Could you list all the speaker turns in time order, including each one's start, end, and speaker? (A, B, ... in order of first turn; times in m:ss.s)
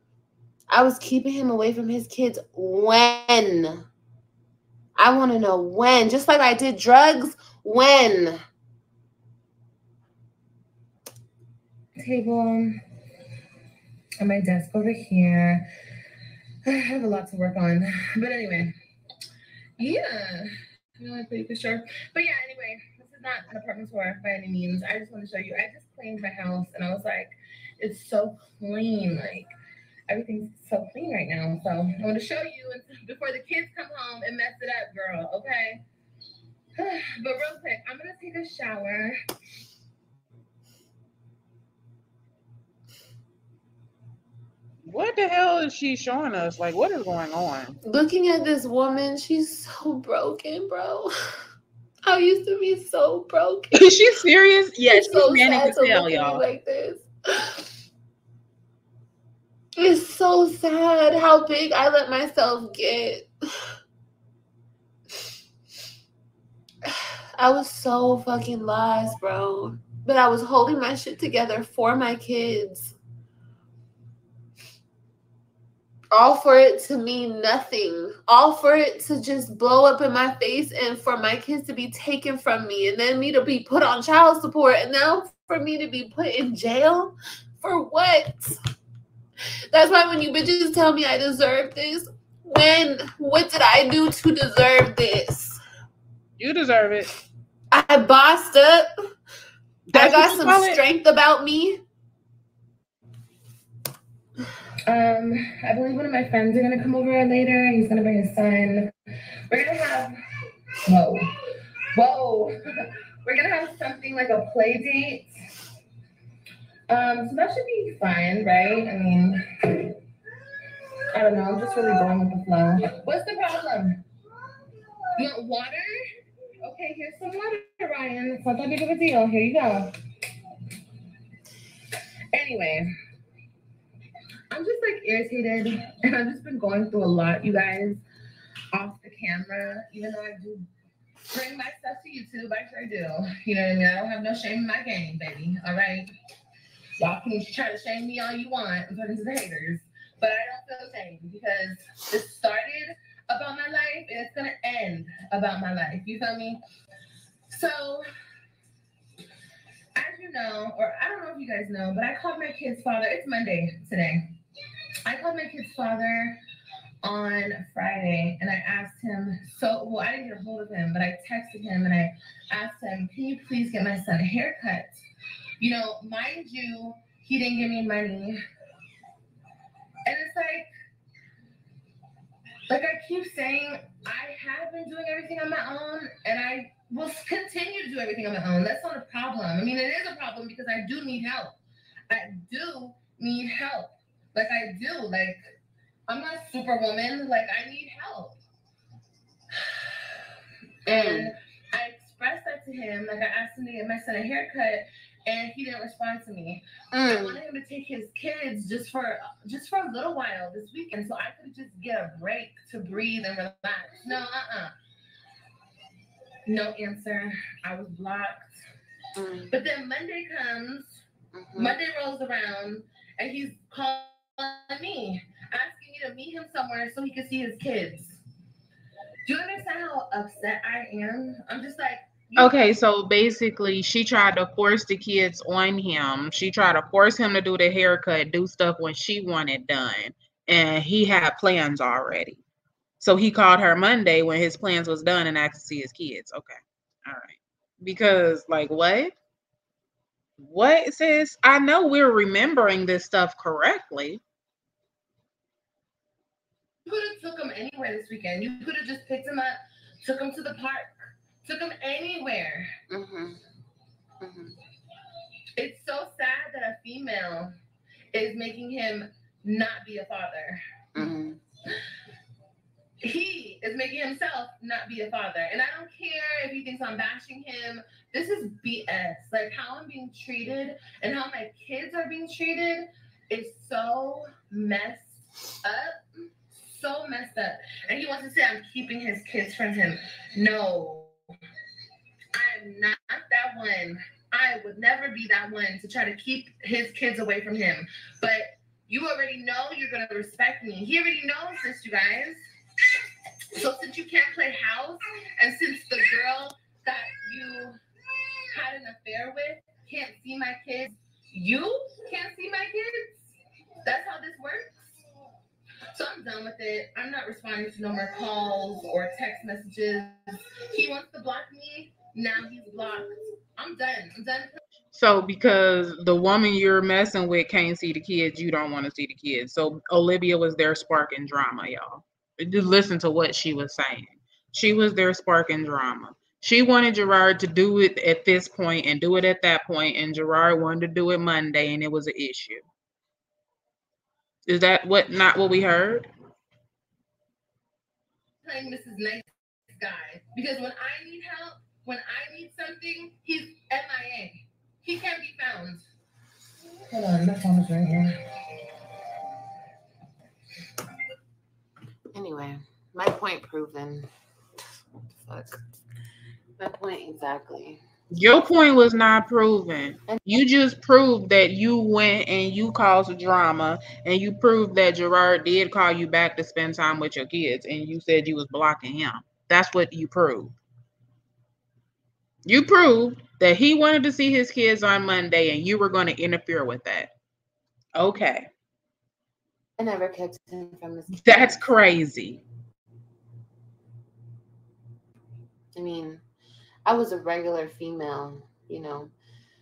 0:00.7-0:03.8 A
0:05.0-0:08.4 A
0:12.0-0:12.8 B
0:14.2-0:15.7 B
0:16.6-0:18.8 B
0:19.8-0:29.5 B
0:30.1-0:35.8 B
0:36.8-0:39.2 B
0:44.9-0:47.8 C
0:47.8-0:51.1 A
0:52.0-0:54.0 A
0:53.7-0:56.4 C
0:54.9-0:57.6 A
0:59.8-1:03.3 A
1:06.9-1:13.0 A
1:16.1-1:28.6 A
1:29.7-1:35.6 A
1:36.4-1:37.1 C
1:37.7-1:38.9 A
1:39.9-1:40.8 C
1:39.9-1:41.8 A
1:44.9-1:48.9 B
1:49.5-1:50.2 B
1:50.9-1:51.3 B
1:51.9-1:52.6 B
1:53.2-1:55.3 B
1:56.9-1:59.9 B
2:01.1-2:04.0 B
2:05.2-2:06.0 B
2:06.6-2:09.9 B
2:12.3-2:12.9 B
2:14.5-2:18.0 B
2:18.7-2:20.7 B
2:21.3-2:26.1 B
2:27.0-2:36.6 B
2:37.5-2:38.0 B
2:40.0-2:44.3 B
2:45.1-2:46.4 B
2:47.0-2:55.0 B
2:55.6-2:58.4 B
3:00.0-3:00.7 B
3:02.7-3:11.6 B
3:12.1-3:15.6 B
3:16.1-3:18.4 B
3:19.6-3:19.8 B
3:20.9-3:34.7 B
3:20.9-3:21.3 A
3:26.9-3:27.4 A
3:36.5-3:38.6 B
3:39.2-3:39.5 A
3:39.5-3:41.0 B
3:41.3-3:41.8 A
3:41.6-3:48.2 B
3:49.3-3:52.6 B
3:52.4-4:02.4 C
4:03.0-4:09.1 C
4:10.4-4:14.2 C
4:16.8-4:22.8 B
4:22.9-4:23.4 A
4:24.2-4:24.6 A
4:25.6-4:27.5 B
4:28.1-4:31.1 B
4:31.0-4:31.4 A
4:33.0-4:51.1 B
4:52.3-5:02.4 B
5:03.5-5:07.8 B
5:08.4-5:13.3 B
5:13.8-5:14.8 B
5:15.9-5:24.6 B
5:24.9-5:42.6 C
5:44.5-5:46.1 C
5:48.4-5:55.8 B
5:56.9-5:58.2 B
6:02.1-6:04.1 A
6:05.3-6:05.6 A
6:06.6-6:07.8 A
6:08.1-6:20.6 C
6:22.5-6:27.1 C
6:28.0-6:28.5 C
6:29.8-6:31.6 A
6:31.2-6:32.4 C
6:35.8-6:36.2 A
6:36.9-6:39.1 A